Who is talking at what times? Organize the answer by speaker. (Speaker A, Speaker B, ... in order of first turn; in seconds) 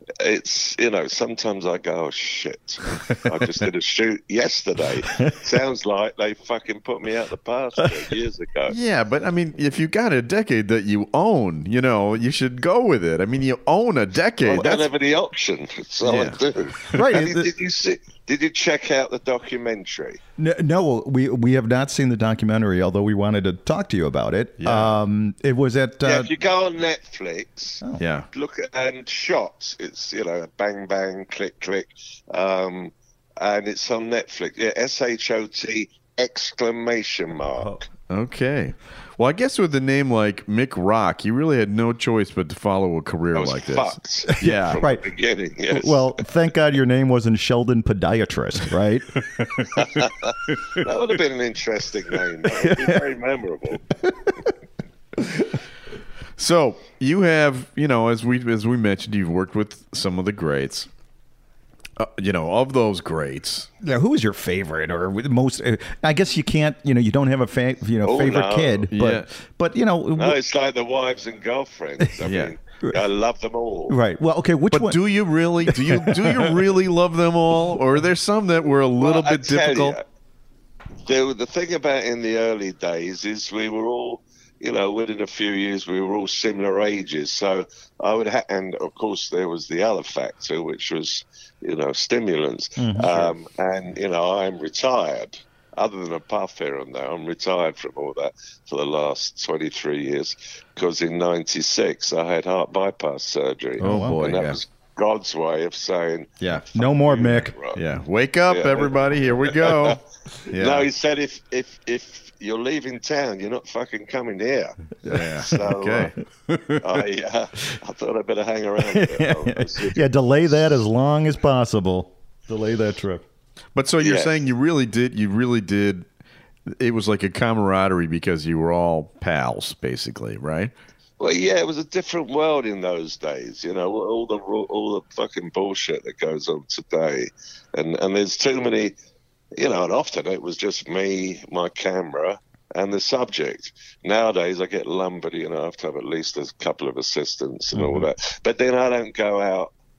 Speaker A: 0.2-8.7, 14.4-20.2, 26.0-37.8, 43.3-46.1, 49.8-53.8, 68.0-68.9, 70.2-74.0, 79.0-80.0, 81.0-107.8, 108.5-114.8, 115.4-116.1, 116.8-120.8, 124.0-124.4, 131.2-139.0, 139.6-149.7
Speaker B: 5.2-5.5, 16.9-17.5, 20.4-26.3, 44.3-45.0, 45.7-50.1, 52.5-53.0, 54.0-54.5, 63.8-70.4, 73.9-75.0, 75.6-76.6, 92.8-93.3, 103.8-104.2, 106.7-107.5, 115.0-115.5, 118.8-123.2, 147.7-148.1
Speaker C: 8.7-14.9, 16.0-16.4, 24.6-24.9, 28.0-28.3, 38.1-44.8, 56.4-60.9, 62.0-63.7, 68.9-69.3, 72.2-72.5, 74.7-80.0, 103.8-104.6, 106.4-106.7, 107.7-110.9, 115.1-117.0, 123.8-126.0, 126.7-130.7